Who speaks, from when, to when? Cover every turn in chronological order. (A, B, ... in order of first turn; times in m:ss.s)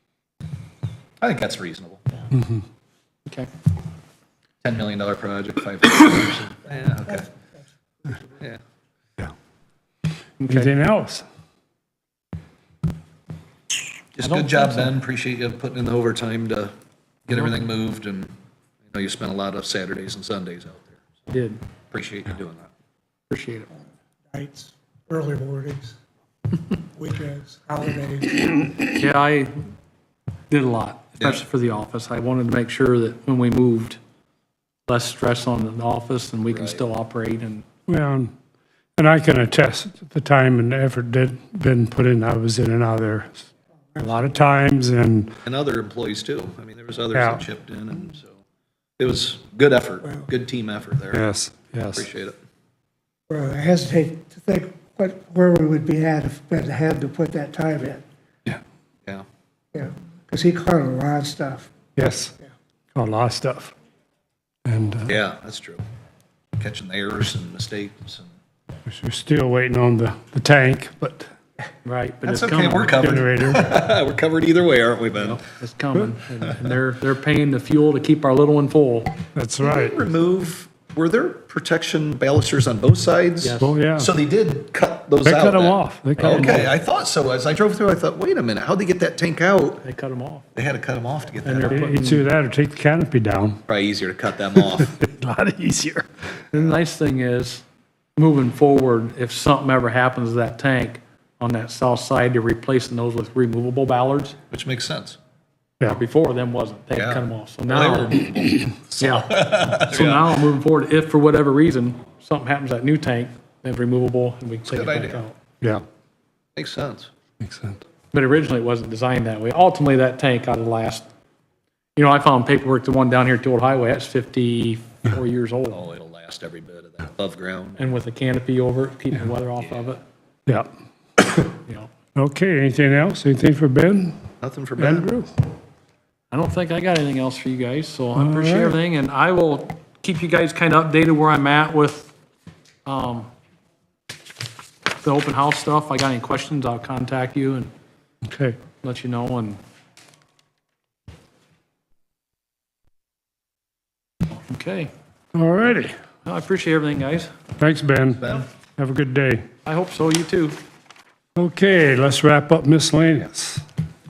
0:01.2-0:02.0 A
0:02.3-0:02.6 B
0:04.6-0:07.3 A
0:06.8-0:07.2 C
0:08.0-0:08.3 C
0:10.4-0:10.7 D
0:10.5-0:11.2 B
0:14.1-0:16.7 A
0:14.2-0:14.9 D
0:17.3-0:18.3 A
0:18.9-0:21.0 A
0:21.3-0:21.6 D
0:21.9-0:22.7 A
0:23.3-0:23.7 D
0:24.3-0:26.0 C
0:26.9-0:28.9 C
0:28.9-0:29.5 D
0:30.5-0:34.0 D
0:34.9-0:37.6 D
0:36.5-0:36.8 A
0:37.9-0:38.3 B
0:39.0-0:43.4 B
0:43.9-0:44.2 C
0:44.0-0:45.3 B
0:45.4-0:48.4 A
0:47.1-0:47.4 B
0:49.0-0:51.2 A
0:50.0-0:50.3 C
0:51.1-0:52.0 B
0:51.9-0:52.4 A
0:53.3-0:58.0 C
0:58.5-0:59.2 A
0:59.7-1:01.7 C
1:02.0-1:02.3 B
1:02.9-1:03.7 B
1:04.6-1:05.2 B
1:05.1-1:05.8 A
1:06.6-1:08.3 A
1:08.9-1:11.2 B
1:11.8-1:13.0 D
1:12.2-1:15.4 A
1:12.9-1:13.7 B
1:15.2-1:19.1 D
1:19.3-1:20.0 B
1:19.6-1:29.8 A
1:23.4-1:23.7 D
1:23.6-1:24.1 B
1:25.2-1:26.7 B
1:26.2-1:26.7 D
1:29.8-1:30.4 D
1:30.5-1:32.0 A
1:31.4-1:32.2 D
1:31.7-1:33.6 B
1:33.7-1:35.0 A
1:34.5-1:36.1 B
1:36.5-1:37.6 D
1:38.2-1:44.4 D
1:44.5-1:45.2 A
1:45.9-1:48.4 D
1:47.0-1:50.4 A
1:49.0-1:55.4 D
1:54.7-1:55.2 A
1:56.6-1:57.1 A
1:57.4-1:57.8 B
1:58.1-2:01.0 D
2:02.0-2:05.8 D
2:05.7-2:07.8 A
2:07.8-2:10.0 D
2:09.6-2:10.0 A
2:10.5-2:11.5 B
2:12.1-2:14.1 B
2:14.4-2:15.1 A
2:14.8-2:15.3 B
2:16.3-2:22.1 D
2:18.2-2:18.7 B
2:22.8-2:23.3 D
2:25.0-2:27.7 D
2:28.2-2:28.6 B
2:28.8-2:29.6 D
2:34.3-2:34.9 D
2:35.3-2:35.9 B
2:36.2-2:37.3 D
2:37.6-2:38.2 B
2:38.2-2:38.5 A
2:38.8-2:39.4 B
2:39.6-2:40.6 D
2:41.4-2:43.6 B